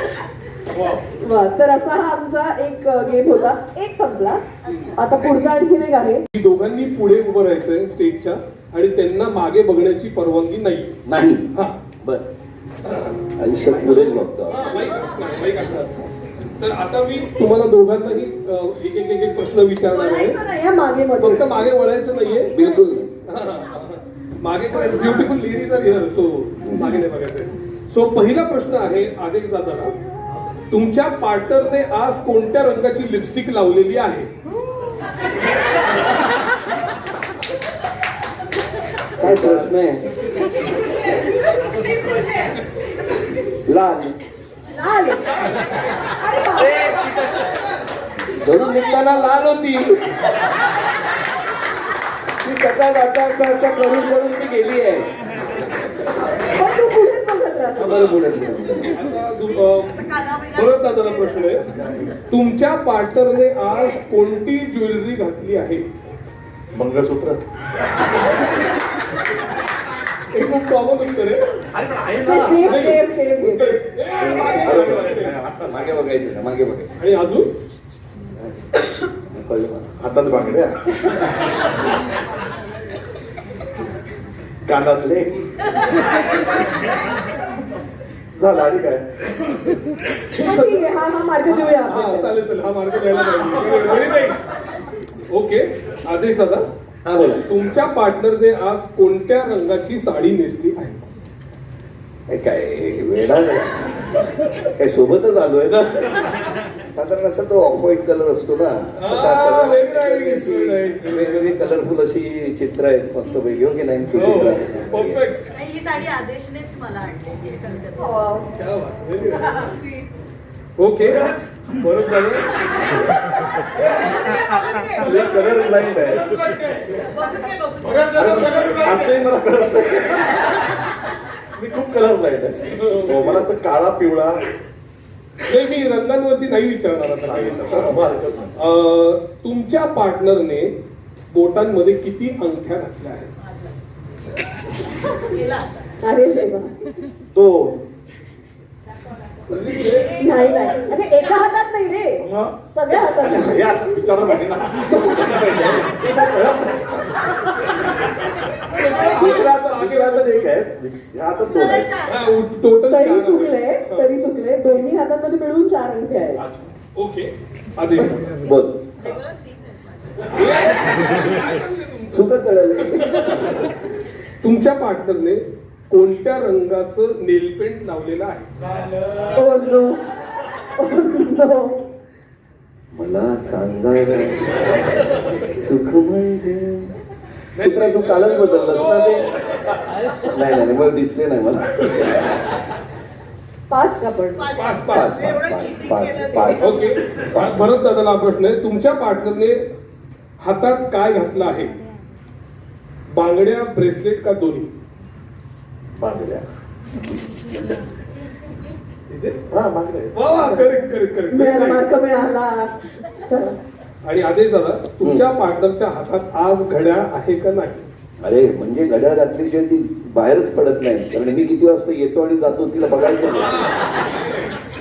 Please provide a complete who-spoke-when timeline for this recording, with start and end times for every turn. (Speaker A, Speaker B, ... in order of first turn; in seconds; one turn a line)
Speaker A: 0.7-1.0
Speaker B: 1.2-4.4
Speaker B: 4.9-6.2
Speaker A: 6.3-11.0
Speaker C: 11.0-11.5
Speaker A: 11.5-11.8
Speaker C: 12.0-12.3
Speaker A: 12.9-13.2
Speaker C: 13.4-14.7
Speaker A: 14.5-20.4
Speaker B: 19.9-21.5
Speaker A: 21.2-22.6
Speaker C: 22.5-23.1
Speaker A: 23.2-30.0
Speaker C: 26.6-27.0
Speaker A: 30.7-34.3
Speaker C: 39.2-40.1
Speaker D: 39.2-39.7
Speaker C: 43.6-44.2
Speaker B: 44.7-45.3
Speaker B: 46.1-47.0
Speaker C: 48.2-50.2
Speaker C: 52.4-55.1
Speaker B: 56.5-58.1
Speaker C: 57.8-59.1
Speaker A: 57.8-58.2
Speaker A: 58.8-61.7
Speaker E: 59.8-61.4
Speaker D: 61.7-62.1
Speaker A: 62.3-65.9
Speaker D: 66.7-67.4
Speaker A: 70.3-71.4
Speaker D: 71.8-72.9
Speaker B: 72.2-73.8
Speaker A: 72.6-75.3
Speaker D: 74.2-75.9
Speaker C: 74.4-74.8
Speaker C: 75.6-76.9
Speaker A: 77.0-77.5
Speaker C: 79.3-79.8
Speaker D: 79.9-80.8
Speaker D: 84.7-85.4
Speaker D: 88.3-89.0
Speaker B: 90.3-92.4
Speaker A: 90.4-90.8
Speaker A: 91.4-94.6
Speaker A: 95.3-96.7
Speaker C: 97.0-97.4
Speaker A: 97.4-101.1
Speaker C: 102.3-115.2
Speaker A: 109.0-111.7
Speaker A: 114.1-115.5
Speaker E: 115.5-118.2
Speaker B: 118.0-118.5
Speaker A: 118.5-119.7
Speaker A: 120.8-122.5
Speaker E: 123.8-125.2
Speaker D: 125.0-126.3
Speaker E: 126.9-128.1
Speaker D: 128.0-130.5
Speaker D: 131.5-134.4
Speaker A: 132.8-133.4
Speaker A: 135.5-138.0
Speaker D: 137.2-138.5
Speaker A: 138.6-140.7
Speaker A: 141.3-143.3
Speaker B: 146.0-146.7
Speaker D: 147.3-147.8
Speaker A: 149.5-150.2
Speaker B: 150.1-153.7
Speaker D: 152.2-152.6
Speaker D: 153.2-157.2
Speaker B: 154.9-155.3
Speaker A: 158.8-160.5
Speaker D: 158.9-162.0
Speaker E: 161.4-162.4
Speaker A: 162.0-164.1
Speaker B: 162.9-166.4
Speaker D: 166.3-166.7
Speaker A: 166.9-168.4
Speaker C: 168.4-168.8
Speaker E: 169.0-170.2
Speaker A: 170.3-173.7
Speaker C: 172.1-173.5
Speaker A: 174.4-178.5
Speaker B: 179.3-180.0
Speaker B: 180.8-181.8
Speaker C: 182.9-184.6
Speaker C: 185.4-186.9
Speaker A: 187.5-189.4
Speaker C: 187.6-189.3
Speaker C: 190.2-192.2
Speaker B: 193.7-194.5
Speaker E: 194.4-197.0
Speaker A: 194.5-195.3
Speaker C: 194.9-196.8
Speaker A: 196.5-199.6
Speaker A: 200.4-201.7
Speaker A: 203.1-204.7
Speaker D: 206.0-206.4
Speaker A: 209.1-209.4
Speaker D: 209.5-210.1
Speaker A: 210.1-211.9
Speaker B: 210.3-210.7
Speaker B: 211.3-213.6
Speaker A: 214.0-217.9
Speaker C: 215.0-215.3
Speaker C: 218.2-223.7